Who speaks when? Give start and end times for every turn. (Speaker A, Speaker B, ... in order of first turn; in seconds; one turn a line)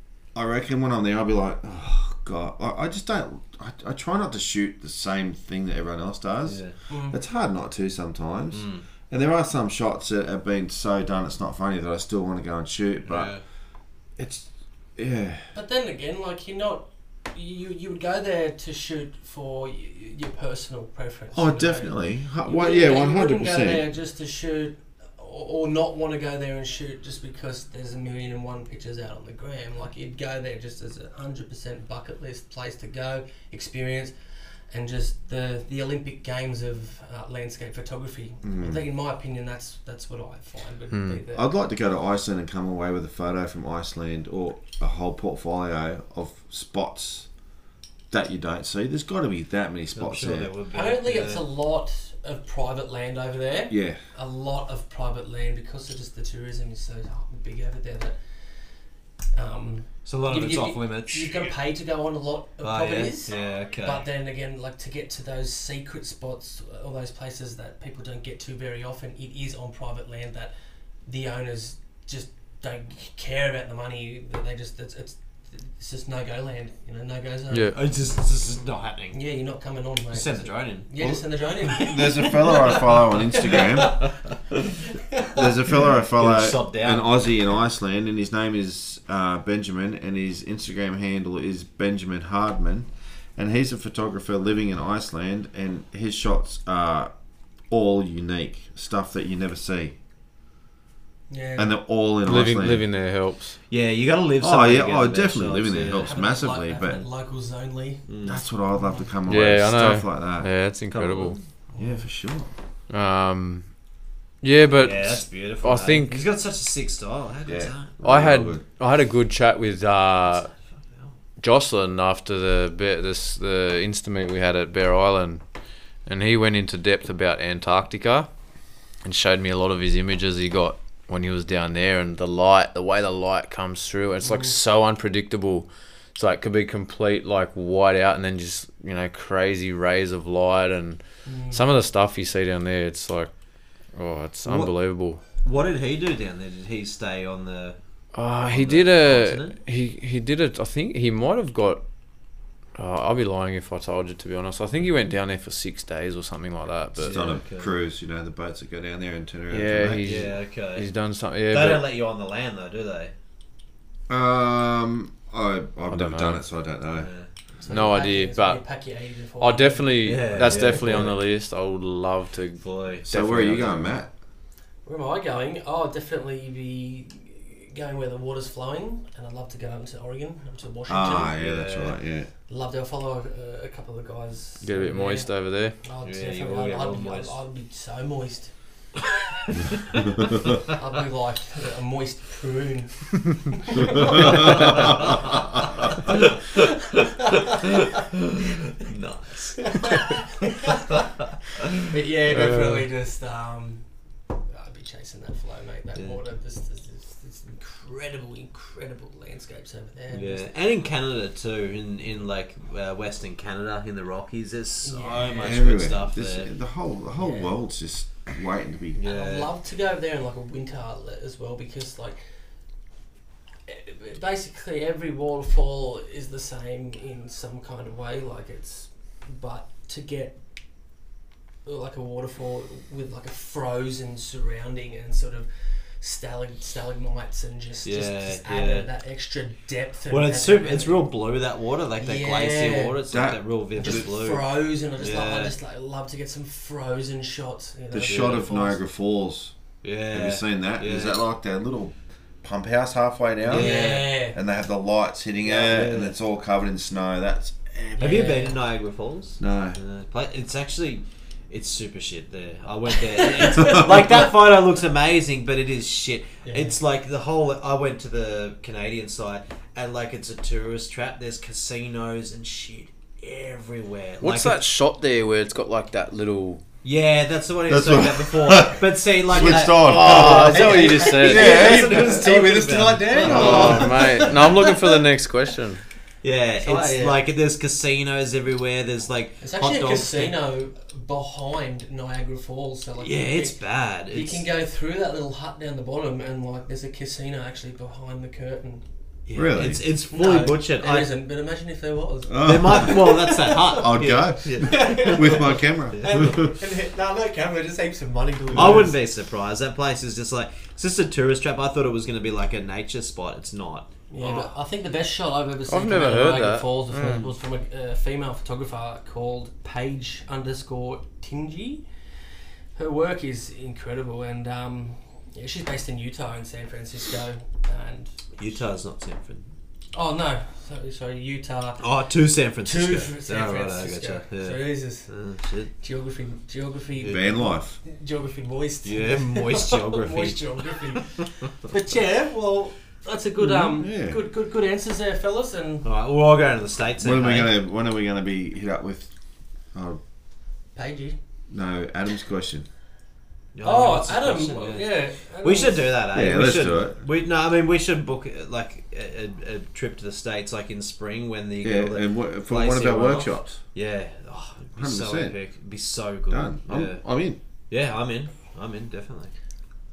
Speaker A: 0.3-13.3
Speaker B: 6.5-6.7
Speaker C: 6.9-7.2
Speaker B: 8.5-8.8
Speaker B: 13.1-13.4
Speaker A: 14.2-15.4
Speaker C: 15.5-34.1
Speaker A: 21.3-23.8
Speaker C: 34.7-41.5
Speaker A: 38.4-38.8
Speaker D: 40.9-41.2
Speaker A: 41.3-47.3
Speaker A: 48.1-50.5
Speaker B: 49.9-51.4
Speaker C: 50.7-58.2
Speaker A: 53.7-54.0
Speaker C: 59.3-70.5
Speaker B: 60.0-61.5
Speaker B: 62.6-64.0
Speaker C: 71.0-77.7
Speaker D: 77.5-77.7
Speaker B: 77.7-79.2
Speaker C: 79.1-84.1
Speaker B: 80.1-80.8
Speaker A: 81.0-84.0
Speaker B: 83.4-84.1
Speaker C: 85.1-85.5
Speaker A: 85.3-97.1
Speaker B: 86.1-87.3
Speaker A: 97.7-99.9
Speaker C: 101.3-101.8
Speaker A: 101.6-102.8
Speaker D: 102.2-103.6
Speaker B: 103.7-106.1
Speaker A: 104.4-107.0
Speaker C: 106.0-108.1
Speaker B: 108.1-108.4
Speaker A: 108.2-110.5
Speaker C: 108.7-109.1
Speaker D: 109.3-111.4
Speaker B: 110.9-111.4
Speaker C: 111.7-112.0
Speaker A: 111.8-112.5
Speaker D: 112.9-113.7
Speaker D: 114.4-116.2
Speaker B: 114.7-118.0
Speaker A: 117.5-118.6
Speaker D: 118.0-120.5
Speaker D: 121.4-125.4
Speaker D: 126.0-128.3
Speaker D: 129.0-143.3
Speaker C: 134.2-134.5
Speaker C: 141.2-141.6
Speaker D: 143.9-145.2
Speaker B: 144.4-144.7
Speaker B: 145.4-147.8
Speaker D: 148.1-151.8
Speaker B: 148.4-149.6
Speaker D: 152.8-157.3
Speaker B: 156.9-157.7
Speaker A: 157.0-160.3
Speaker D: 159.5-161.8
Speaker B: 160.0-160.9
Speaker B: 161.5-163.1
Speaker A: 164.1-167.1
Speaker D: 165.9-166.4
Speaker B: 167.0-167.3
Speaker C: 167.6-171.1
Speaker D: 167.7-168.6
Speaker D: 169.4-174.0
Speaker B: 170.0-171.2
Speaker B: 172.6-173.1
Speaker A: 173.1-174.1
Speaker C: 174.8-181.3
Speaker A: 180.9-182.3
Speaker B: 181.3-182.0
Speaker C: 182.5-185.3
Speaker D: 184.6-185.8
Speaker C: 185.8-188.5
Speaker B: 186.0-187.4
Speaker C: 190.6-197.7
Speaker B: 196.1-200.1
Speaker C: 199.6-201.1
Speaker B: 200.7-201.7
Speaker C: 201.8-203.8
Speaker D: 202.3-202.8
Speaker C: 204.4-210.5
Speaker B: 210.1-216.5
Speaker C: 214.8-215.6
Speaker A: 215.4-219.0
Speaker C: 217.2-217.5
Speaker B: 218.9-219.5
Speaker C: 219.0-222.2
Speaker C: 223.7-230.4
Speaker C: 231.6-241.1
Speaker B: 237.8-238.9
Speaker B: 240.1-245.5
Speaker C: 242.0-243.0
Speaker A: 243.1-244.1
Speaker C: 243.8-248.8
Speaker A: 247.9-249.5
Speaker B: 248.1-248.4
Speaker B: 249.8-251.2
Speaker A: 250.1-258.3
Speaker B: 253.4-254.1
Speaker C: 253.5-254.4
Speaker B: 255.4-256.1
Speaker C: 258.0-258.6
Speaker B: 258.0-274.6
Speaker A: 259.4-259.8
Speaker C: 263.1-263.9
Speaker C: 266.4-266.8
Speaker D: 274.2-276.6
Speaker B: 276.8-284.4
Speaker A: 277.7-283.9
Speaker D: 279.7-281.7
Speaker C: 280.1-284.9
Speaker D: 283.2-285.8
Speaker B: 286.2-290.4
Speaker C: 286.6-287.2
Speaker C: 289.4-293.6
Speaker B: 293.0-294.4
Speaker C: 294.1-298.8
Speaker B: 299.3-301.1
Speaker A: 299.4-299.8
Speaker C: 300.1-303.9
Speaker A: 302.3-303.1
Speaker B: 302.4-306.4
Speaker A: 303.7-306.5
Speaker C: 304.6-308.9
Speaker A: 308.5-308.9
Speaker B: 308.5-314.5
Speaker C: 314.1-321.8
Speaker D: 315.7-317.3
Speaker C: 322.7-328.2
Speaker B: 328.4-329.4
Speaker C: 329.9-331.8
Speaker B: 331.8-335.7
Speaker C: 332.6-335.1
Speaker C: 335.8-345.9
Speaker A: 337.0-337.8
Speaker B: 338.8-341.2
Speaker A: 343.4-344.2
Speaker B: 345.8-347.5
Speaker A: 347.0-349.1
Speaker A: 349.7-350.0
Speaker C: 350.7-351.1
Speaker A: 351.5-352.6
Speaker B: 353.5-354.9
Speaker C: 353.6-355.9
Speaker B: 355.4-367.0
Speaker A: 356.1-357.0
Speaker A: 361.6-363.6
Speaker A: 364.8-365.4
Speaker A: 366.3-367.4
Speaker B: 367.7-369.3